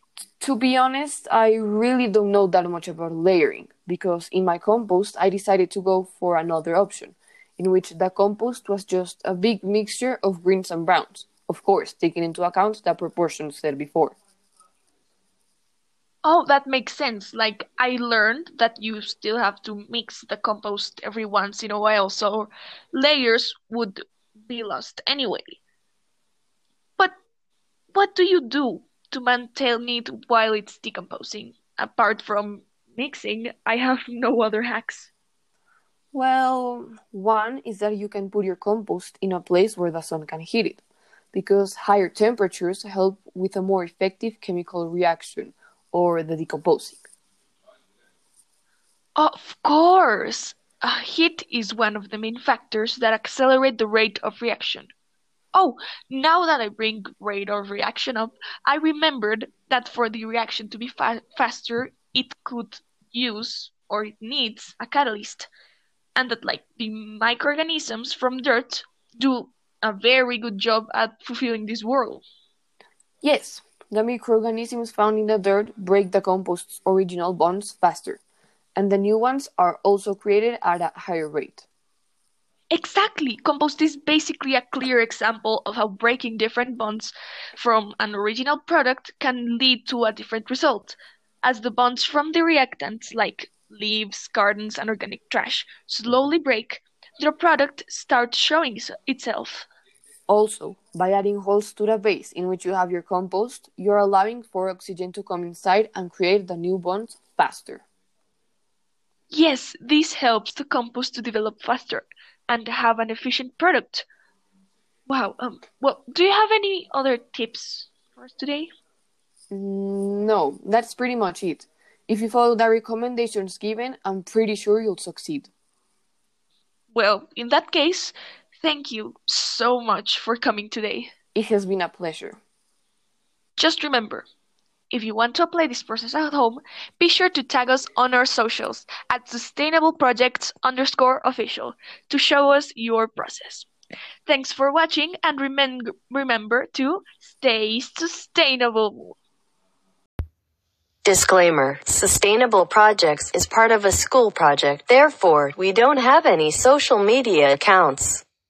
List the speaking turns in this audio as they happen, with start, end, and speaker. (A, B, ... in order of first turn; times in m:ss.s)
0:00.4-0:14.2 A
0:16.2-0:25.6 B
0:27.9-0:35.1 B
0:36.1-0:47.0 A
0:49.2-0:54.9 B
0:55.5-1:05.5 B
1:06.2-1:12.2 B
1:13.2-1:18.2 A
1:18.8-1:21.7 A
1:22.7-1:39.7 B
1:40.3-1:47.8 A
1:49.3-1:54.1 B
1:55.1-1:58.7 B
1:59.5-2:05.5 A
2:06.9-2:11.1 B
2:11.4-2:12.4 A
2:13.6-2:14.3 B
2:14.9-2:23.7 B
2:24.3-2:29.2 B
2:31.0-2:38.2 C